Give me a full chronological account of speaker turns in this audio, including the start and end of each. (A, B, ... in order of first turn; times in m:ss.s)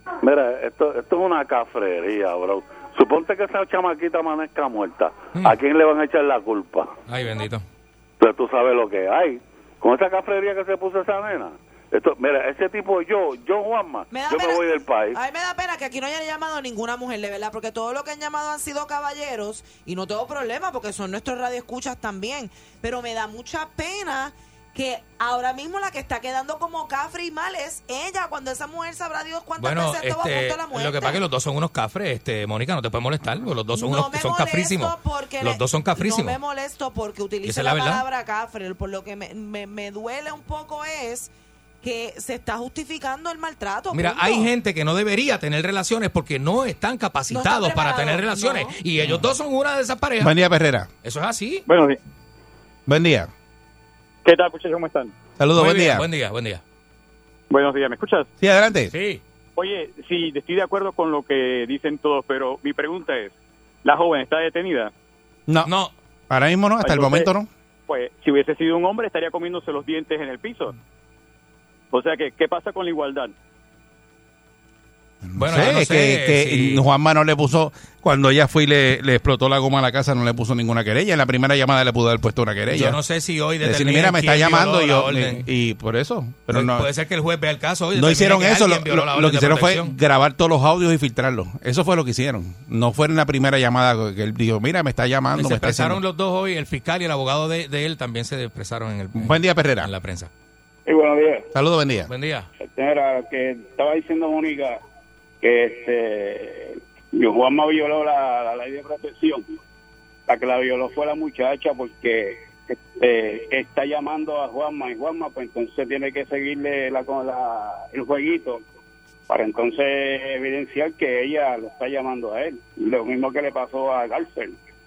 0:00.2-0:06.9 A
0:07.1-0:07.6 B
0:08.2-0:15.2 A
0:14.1-0:31.2 C
0:29.6-0:36.4 B
0:33.7-0:41.3 C
0:37.4-0:38.0 B
0:41.8-0:44.5 C
0:43.9-0:50.3 B
0:47.3-0:48.8 C
0:50.2-0:50.9 D
0:51.0-0:51.6 B
0:51.7-0:52.0 E
0:52.9-0:53.3 D
0:54.2-0:55.1 E
0:55.4-0:56.0 D
0:55.6-0:56.6 B
0:57.5-0:58.3 E
0:58.4-0:58.9 D
0:58.9-0:59.2 B
0:59.6-1:04.9 E
1:05.6-1:05.9 B
1:06.3-1:07.5 D
1:06.8-1:07.3 E
1:07.9-1:10.7 E
1:11.9-1:13.3 E
1:15.2-1:23.0 D
1:15.4-1:16.8 B
1:22.7-1:25.4 B
1:23.6-1:26.9 D
1:26.5-1:29.9 B
1:27.9-1:36.0 D
1:35.3-1:40.3 B
1:39.2-1:39.9 D
1:40.9-1:41.4 F
1:41.5-1:42.1 D
1:42.1-1:42.5 B
1:42.8-1:44.8 F
1:45.4-1:49.4 F
1:50.3-1:58.6 F
1:59.3-2:04.5 F